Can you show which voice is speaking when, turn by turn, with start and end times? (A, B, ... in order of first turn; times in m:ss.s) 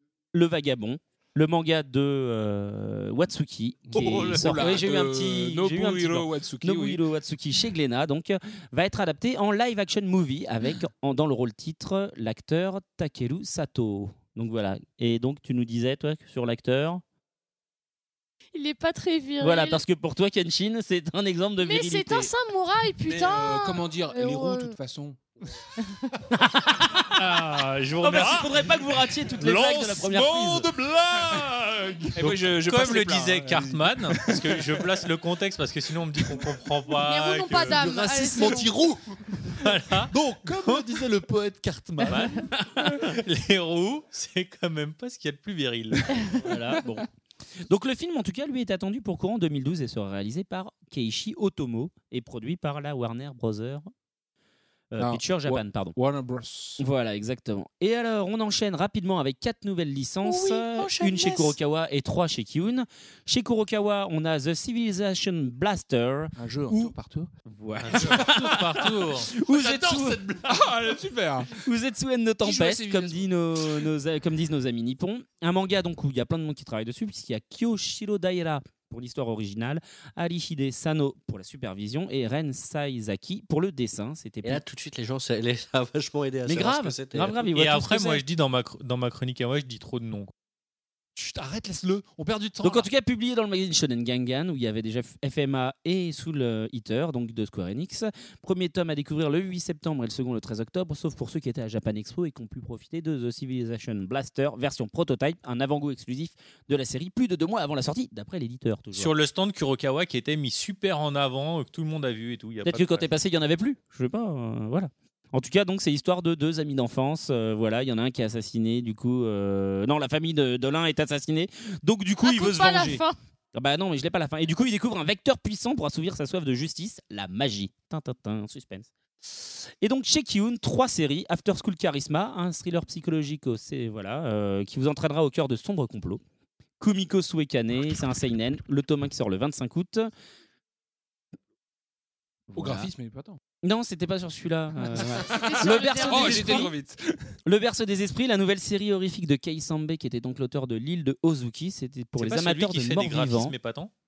0:00.3-0:17.0 A
0:03.9-0:07.0 B
0:18.5-0:19.8 C
0:19.4-0:22.3 A
0:21.6-0:24.8 C
0:23.0-0:25.3 B
0:27.1-0:28.5 D
0:28.0-0:30.7 A
0:28.1-0:32.5 E
0:32.1-0:34.4 B
0:32.6-0:38.1 D
0:37.0-0:38.8 C
0:37.6-0:39.2 E
0:39.6-0:41.0 D
0:40.1-0:42.2 E
0:42.0-0:42.3 C
0:42.1-0:46.3 D
0:42.6-0:42.9 A
0:46.4-0:47.0 A
0:47.7-0:53.9 A
0:54.9-0:56.0 A
0:55.0-0:56.8 B
0:56.8-1:06.9 A
1:00.2-1:01.5 C
1:06.4-1:07.3 B
1:07.4-1:08.6 A
1:07.9-1:09.3 D
1:09.3-1:10.2 A
1:09.3-1:10.8 E
1:10.4-1:11.5 B
1:11.6-1:24.6 A
1:12.4-1:13.9 B
1:24.4-1:27.4 F
1:26.4-1:28.2 A
1:27.5-1:30.3 D
1:31.2-1:32.9 E
1:32.6-1:49.1 A
1:48.9-1:53.1 D
1:52.6-2:03.0 A
2:02.2-2:03.1 C
2:03.5-2:16.2 A
2:16.8-2:20.1 A
2:22.5-2:22.9 A
2:22.5-2:23.4 B
2:23.6-2:26.7 A
2:25.0-2:27.3 B
2:25.2-2:26.7 C
2:27.4-2:33.5 A
2:32.2-2:33.9 D